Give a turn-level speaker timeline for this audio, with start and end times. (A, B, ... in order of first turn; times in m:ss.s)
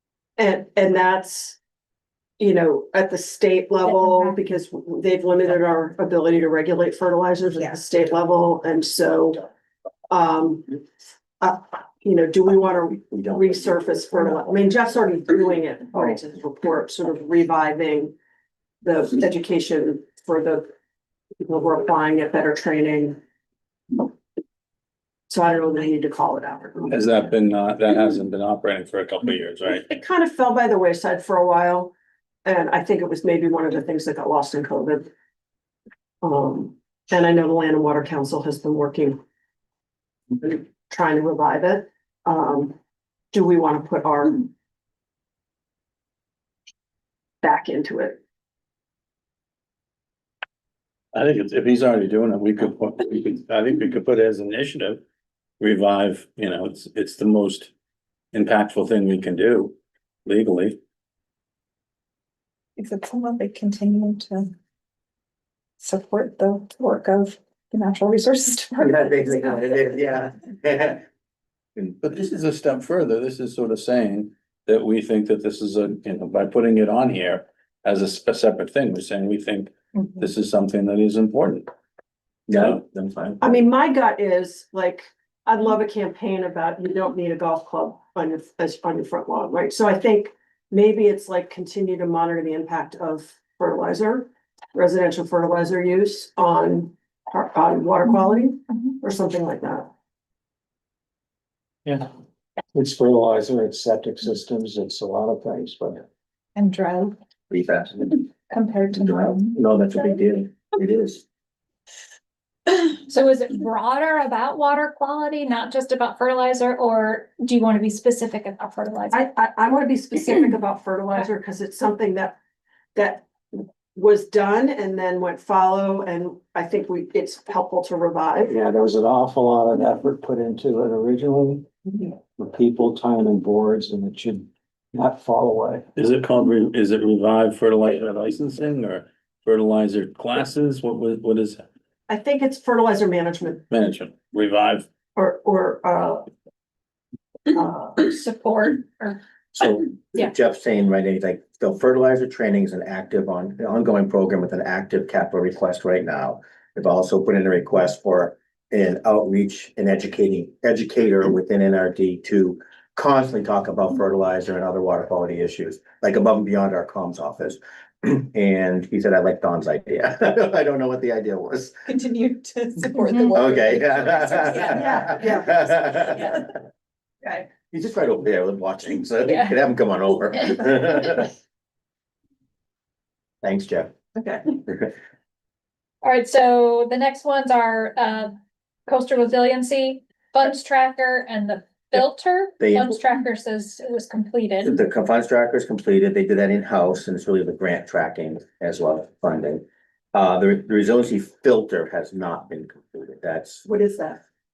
0:00.4-0:01.6 A
0:02.4-0:09.4 A
0:10.1-0:10.8 A
0:11.4-0:18.1 A
0:18.8-0:20.7 A
0:21.4-0:23.2 A
0:25.3-0:27.0 A
0:26.9-0:29.9 B
0:29.9-0:31.9 A
0:32.4-0:35.1 A
0:36.2-0:39.2 A
0:40.4-0:42.8 A
0:43.3-0:44.5 A
0:47.4-0:48.2 A
0:51.1-0:55.0 B
0:55.6-0:57.7 B
0:58.3-0:59.8 B
1:00.3-1:00.8 B
1:02.8-1:04.5 C
1:05.8-1:09.4 C
1:08.8-1:11.0 D
1:12.0-1:21.7 B
1:22.5-1:23.4 D
1:23.4-1:39.9 A
1:42.7-1:46.0 E
1:46.6-1:47.2 C
1:47.5-1:48.2 D
1:48.5-1:49.6 C
1:48.9-1:51.2 D
1:52.7-1:59.2 F
1:59.1-2:02.4 A
2:03.0-2:08.6 A
2:08.5-2:15.9 E
2:16.0-2:21.6 B
2:22.1-2:23.6 A
2:23.7-2:24.9 B
2:25.2-2:26.3 A
2:27.5-2:28.1 A
2:28.0-2:29.2 F
2:29.5-2:51.8 D
2:51.9-2:56.4 C
2:53.3-2:56.5 D
2:57.5-3:01.3 D
2:59.3-2:59.5 F
3:03.4-3:03.9 D
3:06.0-3:14.8 F
3:12.6-3:13.0 D
3:14.6-3:23.6 D
3:23.6-3:24.2 A